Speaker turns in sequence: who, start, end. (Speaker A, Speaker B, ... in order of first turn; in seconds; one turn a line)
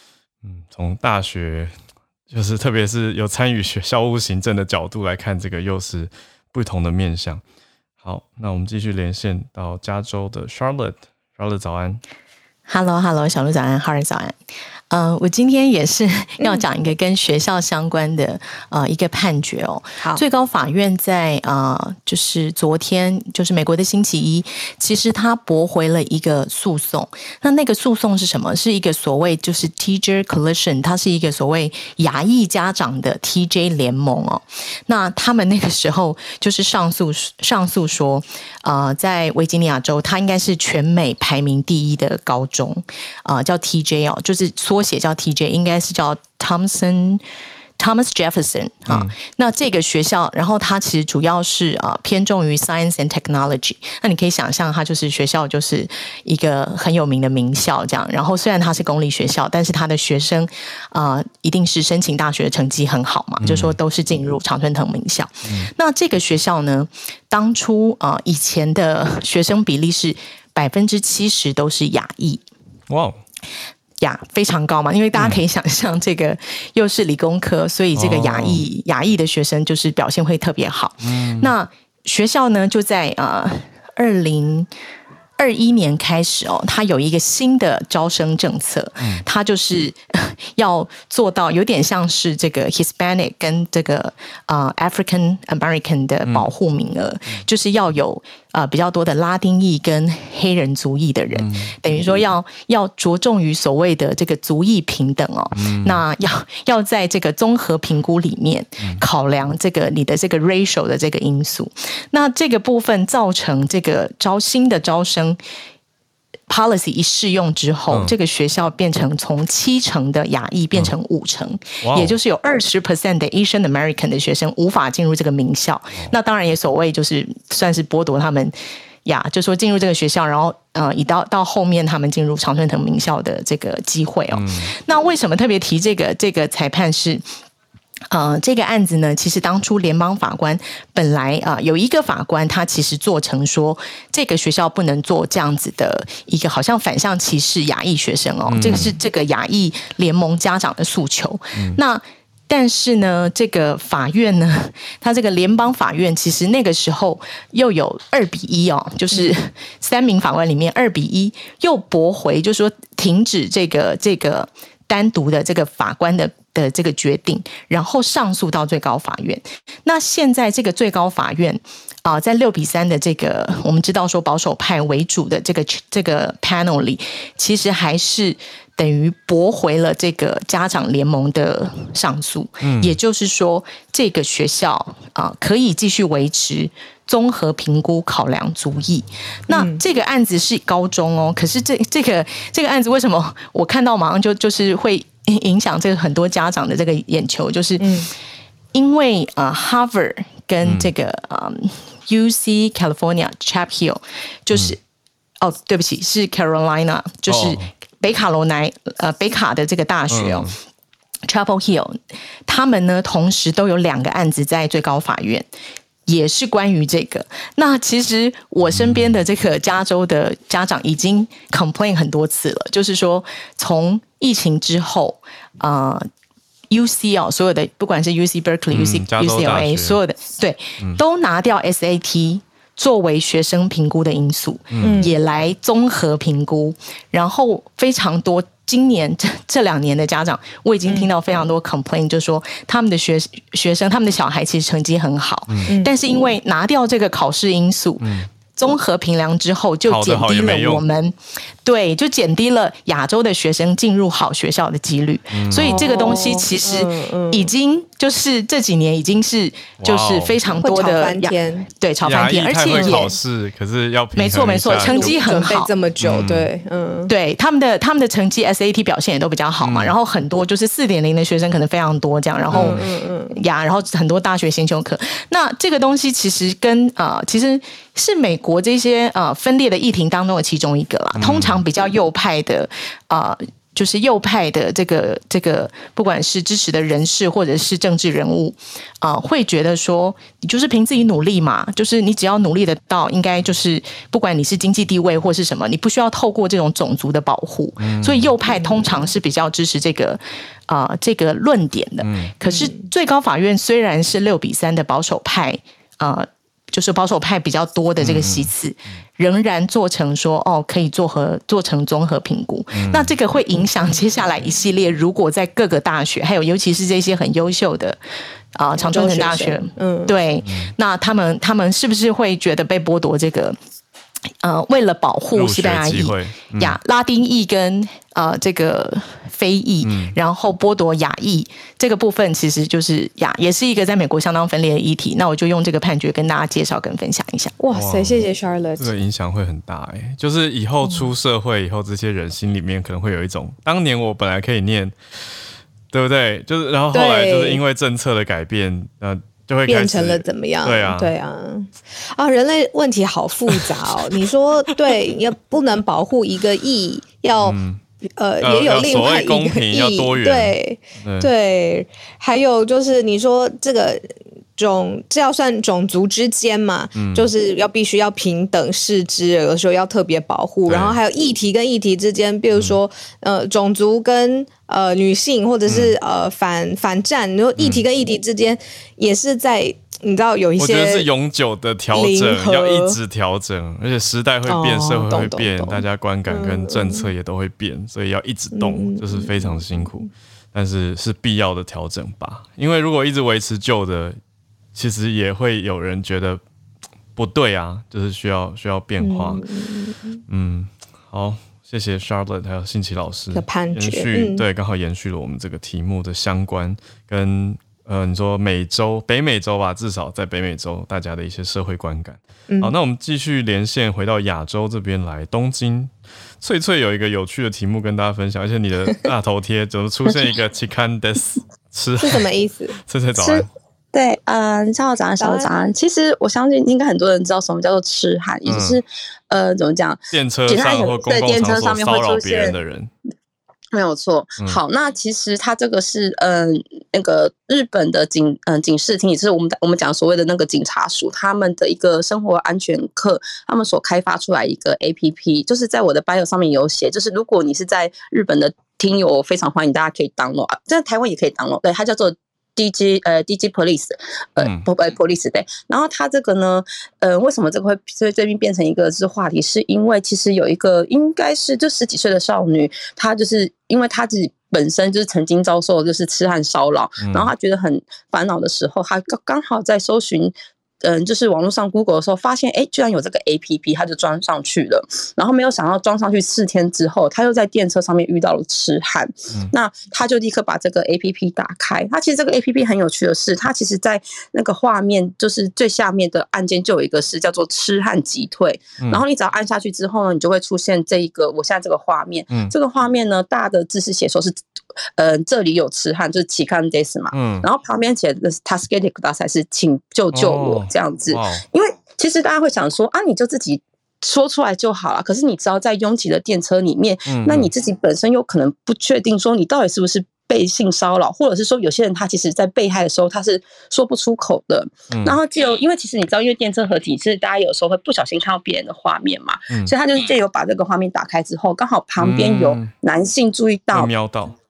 Speaker A: 0.4-1.7
Speaker A: 2.3-7.4
Speaker A: 8.0-12.0
Speaker B: 12.7-14.4
Speaker B: 14.9-47.2
Speaker B: 47.8-72.4
Speaker A: 48.9-49.1
Speaker A: 63.4-63.8
Speaker A: 65.4-65.7
Speaker A: 72.9-73.2
Speaker B: 74.0-84.7
Speaker A: 75.1-75.4
Speaker A: 77.9-78.6
Speaker A: 81.0-81.5
Speaker B: 85.4-115.4
Speaker A: 89.0-89.2
Speaker A: 101.3-101.7
Speaker A: 105.5-106.0
Speaker B: 116.5-137.2
Speaker A: 117.9-118.1
Speaker A: 121.8-122.2
Speaker A: 134.3-134.7
Speaker B: 138.1-198.0
Speaker A: 148.5-149.0
Speaker A: 182.6-183.0
Speaker C: 189.5-189.8
Speaker C: 197.8-198.1
Speaker B: 198.7-204.8
Speaker A: 200.6-200.9
Speaker B: 205.4-210.6
Speaker A: 207.3-207.7
Speaker A: 210.1-210.6
Speaker B: 211.3-215.5
Speaker B: 216.1-226.1
Speaker A: 218.6-219.2
Speaker B: 226.7-263.1
Speaker A: 228.7-230.0
Speaker A: 234.7-235.1
Speaker C: 234.8-235.1
Speaker C: 240.8-241.1
Speaker C: 245.7-245.9
Speaker A: 248.0-248.3
Speaker A: 249.8-250.8
Speaker A: 255.3-255.9
Speaker C: 255.6-257.5
Speaker A: 259.8-260.4
Speaker C: 260.6-261.7
Speaker A: 262.0-265.1
Speaker C: 262.7-263.1
Speaker B: 264.1-265.7
Speaker C: 264.6-267.1
Speaker A: 266.0-266.5
Speaker B: 267.1-318.0
Speaker A: 269.6-269.9
Speaker A: 272.5-272.8
Speaker C: 272.5-273.3
Speaker A: 281.1-281.6
Speaker A: 297.8-298.3
Speaker A: 302.0-302.3
Speaker C: 302.4-302.9
Speaker A: 308.0-308.5
Speaker A: 312.7-313.1
Speaker B: 318.6-323.6
Speaker C: 318.9-320.1
Speaker D: 319.0-319.5
Speaker A: 320.4-320.7
Speaker B: 324.4-337.5
Speaker A: 325.3-326.8
Speaker A: 329.8-330.1
Speaker C: 337.6-338.9
Speaker A: 337.7-338.2
Speaker A: 338.8-351.1
Speaker C: 340.8-341.1
Speaker C: 346.9-347.6
Speaker C: 349.7-357.6
Speaker A: 357.4-357.8
Speaker C: 358.2-381.1
Speaker A: 358.4-361.3
Speaker A: 366.9-367.3
Speaker A: 370.6-371.0
Speaker A: 372.5-372.8
Speaker A: 375.6-375.9
Speaker A: 377.6-377.8
Speaker A: 380.6-394.2
Speaker C: 381.9-383.0
Speaker C: 384.4-387.1
Speaker C: 388.5-390.1
Speaker A: 394.7-396.4
Speaker A: 397.1-399.5
Speaker C: 399.0-400.2
Speaker A: 400.3-422.3
Speaker C: 403.3-404.4
Speaker C: 412.5-412.7
Speaker C: 422.0-422.8
Speaker A: 422.8-423.5
Speaker D: 423.2-432.5
Speaker C: 425.2-425.5
Speaker A: 428.4-428.8
Speaker A: 430.1-432.9
Speaker D: 433.7-494.4
Speaker A: 454.4-454.6
Speaker A: 467.0-467.3
Speaker D: 495.0-523.9
Speaker A: 497.1-497.5
Speaker A: 500.1-501.4
Speaker A: 507.1-507.5
Speaker A: 514.9-515.2
Speaker A: 522.0-522.7
Speaker A: 523.7-524.4